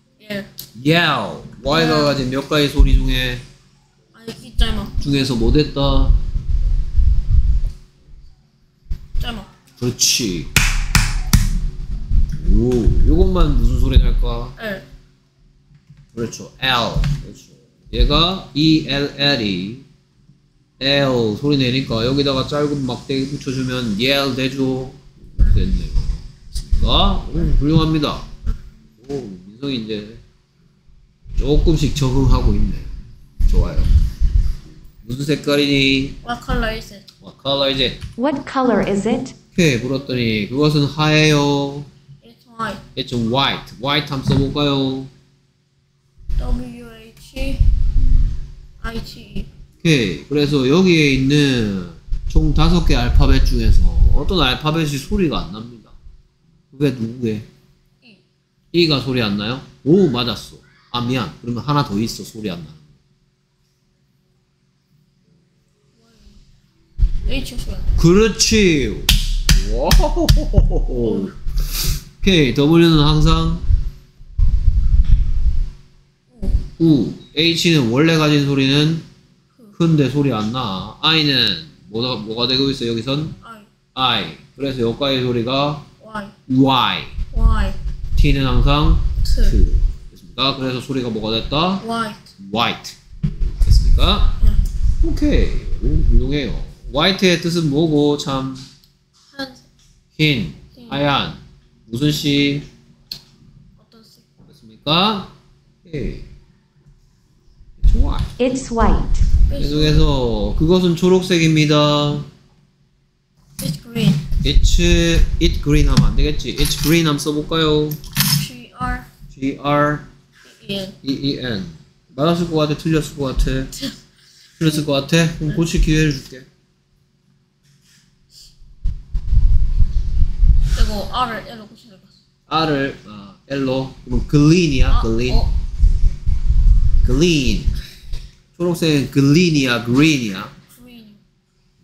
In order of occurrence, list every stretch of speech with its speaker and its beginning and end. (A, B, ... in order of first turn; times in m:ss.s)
0:00.2-0:00.5 A
0:00.8-0:03.4 B
0:01.7-0:02.2 A
0:04.1-0:05.0 A
0:05.0-0:06.2 B
0:09.2-0:09.5 A
0:09.8-0:10.5 B
0:12.3-0:14.6 B
0:14.6-0:14.9 A
0:16.1-0:19.9 B
0:20.8-0:28.3 B
0:29.0-0:30.2 B
0:31.4-0:32.9 B
0:33.5-0:33.9 B
0:35.0-0:36.2 B
0:36.2-0:37.1 A
0:37.2-0:38.0 B
0:38.2-0:39.4 C
0:39.6-0:41.9 B
0:42.2-0:42.8 A
0:43.0-0:45.1 B
0:46.4-0:47.7 A
0:48.8-0:49.5 A
0:49.8-0:55.9 B
0:56.7-0:57.5 B
0:58.7-1:02.8 B
1:06.0-1:06.4 A
1:07.3-1:08.0 A
1:08.0-1:13.6 B
1:11.0-1:11.3 A
1:16.3-1:16.7 A
1:16.8-1:19.0 B
1:19.8-1:23.4 B
1:23.4-1:23.7 A
1:24.0-1:25.9 B
1:26.0-1:26.4 A
1:26.5-1:27.2 B
1:27.3-1:27.8 A
1:28.2-1:31.8 B
1:29.2-1:29.6 A
1:31.8-1:32.3 A
1:32.4-1:33.0 B
1:33.6-1:34.3 B
1:35.0-1:38.7 B
1:39.3-1:39.7 A
1:40.2-1:42.7 B
1:40.8-1:41.1 A
1:43.8-1:44.3 A
1:44.5-1:45.3 B
1:45.8-1:46.3 B
1:47.8-1:48.4 B
1:48.4-1:49.2 C
1:49.5-1:50.1 A
1:49.6-1:52.3 B
1:53.6-1:54.3 A
1:54.4-1:58.0 B
1:58.3-1:59.1 A
1:59.3-2:00.1 B
2:00.4-2:01.0 A
2:01.0-2:03.7 B
2:04.6-2:06.5 B
2:10.7-2:12.2 A
2:12.5-2:15.4 B
2:14.9-2:15.5 A
2:17.0-2:17.7 B
2:18.6-2:20.5 B
2:20.7-2:21.2 A